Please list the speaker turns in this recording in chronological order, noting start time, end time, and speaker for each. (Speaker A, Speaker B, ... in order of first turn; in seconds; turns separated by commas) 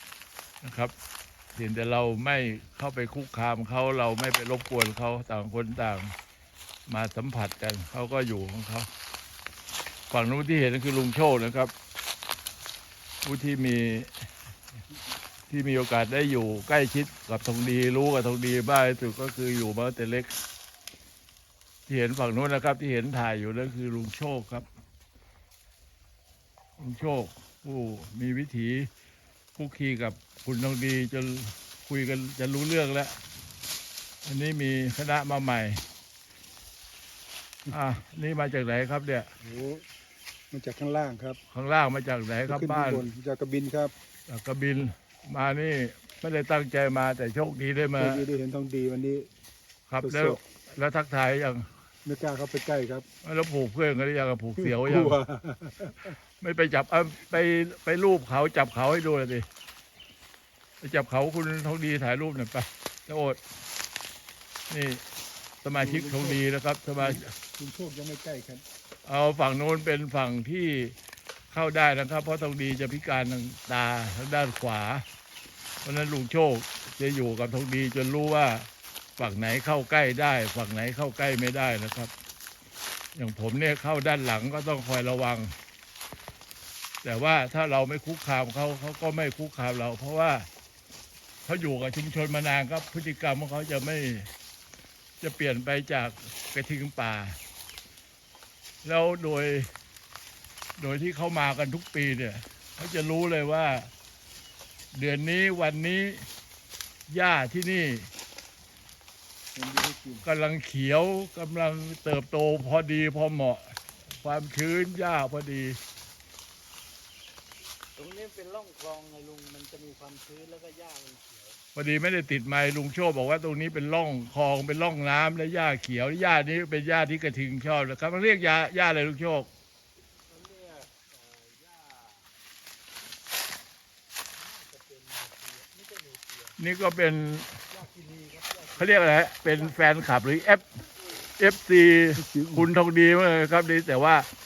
Speaker A: 0.6-0.9, Speaker A: 1.6-6.1, Speaker A: 6.9-8.9, Speaker A: 10.1-11.7, Speaker A: 13.2-14.1, Speaker A: 15.5-20.3, Speaker A: 21.9-24.6, Speaker A: 26.8-28.9, Speaker A: 29.6-33.2, Speaker A: 34.2-35.8, Speaker A: 37.7-39.3, Speaker B: 39.4-39.9, Speaker B: 40.5-41.4, Speaker A: 41.5-43.1, Speaker B: 42.5-43.9, Speaker A: 44.3-48.3, Speaker B: 48.0-49.3, Speaker A: 49.9-51.7, Speaker B: 50.0-50.4, Speaker B: 52.1-53.1, Speaker A: 53.2-55.2, Speaker B: 54.6-56.1, Speaker A: 56.1-59.4, Speaker A: 60.8-63.4, Speaker A: 64.7-65.0, Speaker A: 65.6-67.2, Speaker B: 65.7-66.4, Speaker B: 67.0-68.6, Speaker A: 69.1-70.9, Speaker A: 71.5-75.0, Speaker A: 75.8-78.7, Speaker A: 79.2-82.1, Speaker A: 83.2-85.5, Speaker A: 87.0-90.5, Speaker A: 91.5-94.3, Speaker A: 95.2-97.4, Speaker A: 98.8-99.7, Speaker A: 100.8-103.9, Speaker A: 104.9-106.3, Speaker A: 107.1-108.1, Speaker B: 109.5-110.2, Speaker A: 110.2-115.8, Speaker C: 118.0-121.6, Speaker A: 121.8-129.5, Speaker C: 130.3-132.2, Speaker C: 134.4-136.6, Speaker A: 136.6-137.5, Speaker C: 137.7-139.8, Speaker A: 138.8-140.7, Speaker A: 141.4-144.3, Speaker B: 142.2-142.7